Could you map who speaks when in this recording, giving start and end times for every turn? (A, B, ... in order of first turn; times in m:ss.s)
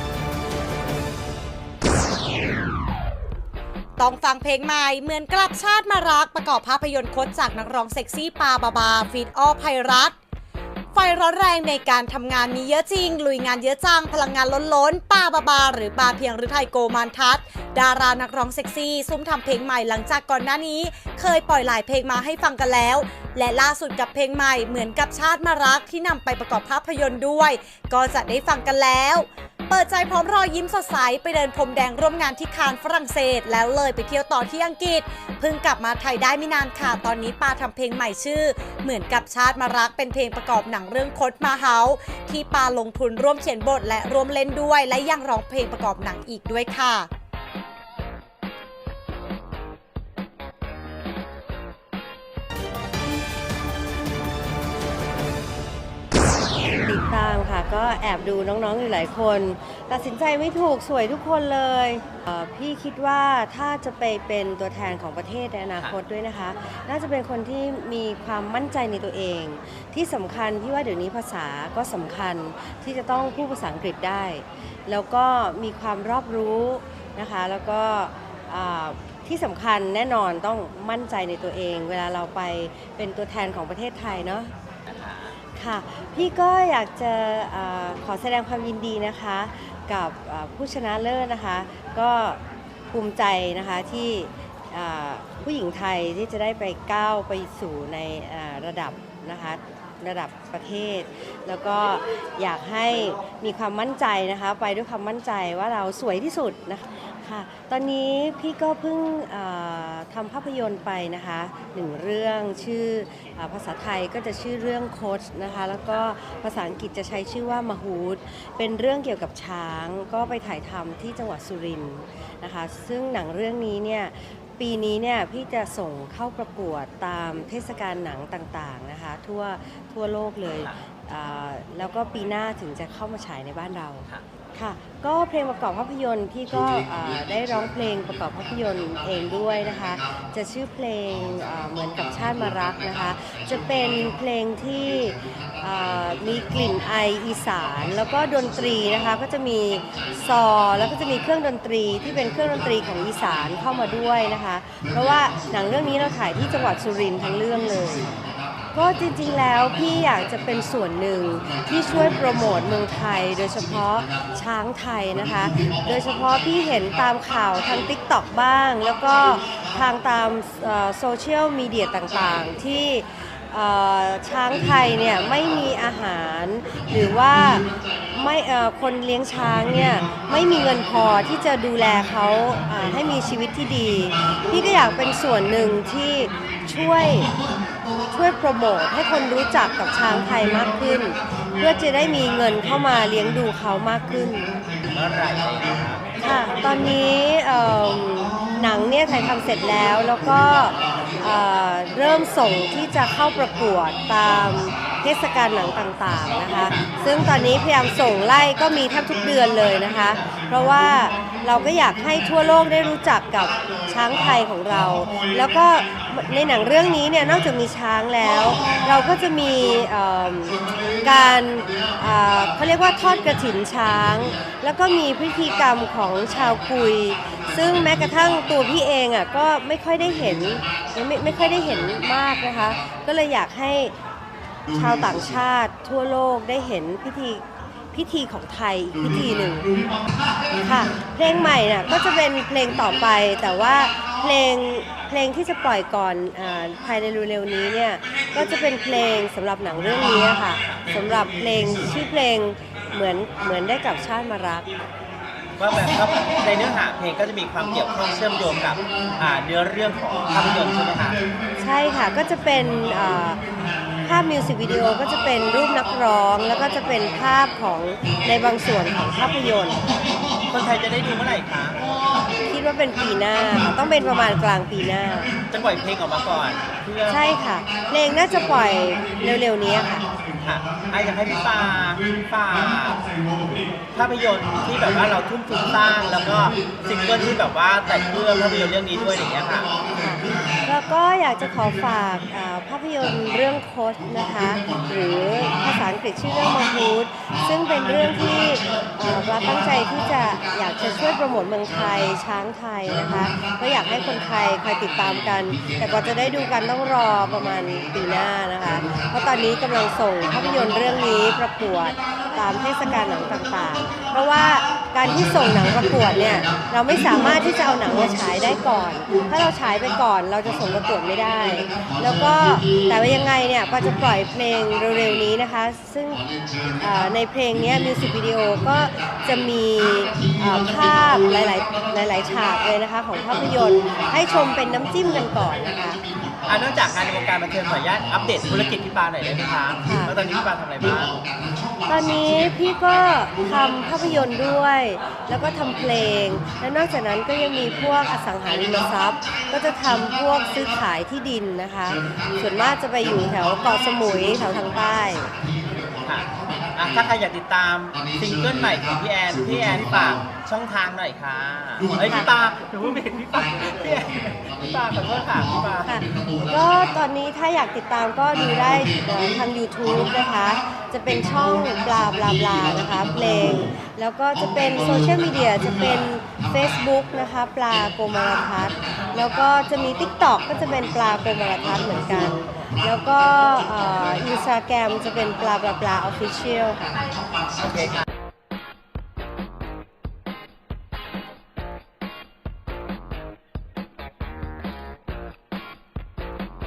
0:04.0-0:10.1 A
0:10.9-0:47.1 A
0:56.8-1:24.5 B
1:24.9-1:25.3 C
1:25.6-1:32.4 B
1:32.9-2:38.0 B
2:38.7-3:07.3 B
3:08.1-3:14.5 B
3:14.8-3:16.1 C
3:16.2-3:53.9 B
3:54.7-3:59.7 B
4:00.6-4:14.7 B
4:15.6-4:21.2 C
4:21.6-4:23.4 B
4:24.0-4:29.8 B
4:30.5-4:31.8 C
4:32.4-4:35.3 B
4:35.5-4:37.2 C
4:37.1-4:40.0 B
4:40.4-4:43.0 C
4:43.9-4:49.7 C
4:49.9-5:26.2 B
5:26.8-5:36.0 B
5:36.5-5:41.2 C
5:39.8-5:40.1 B
5:41.9-5:55.3 B
5:56.0-6:05.9 C
6:05.8-6:27.0 B
6:27.6-6:27.9 C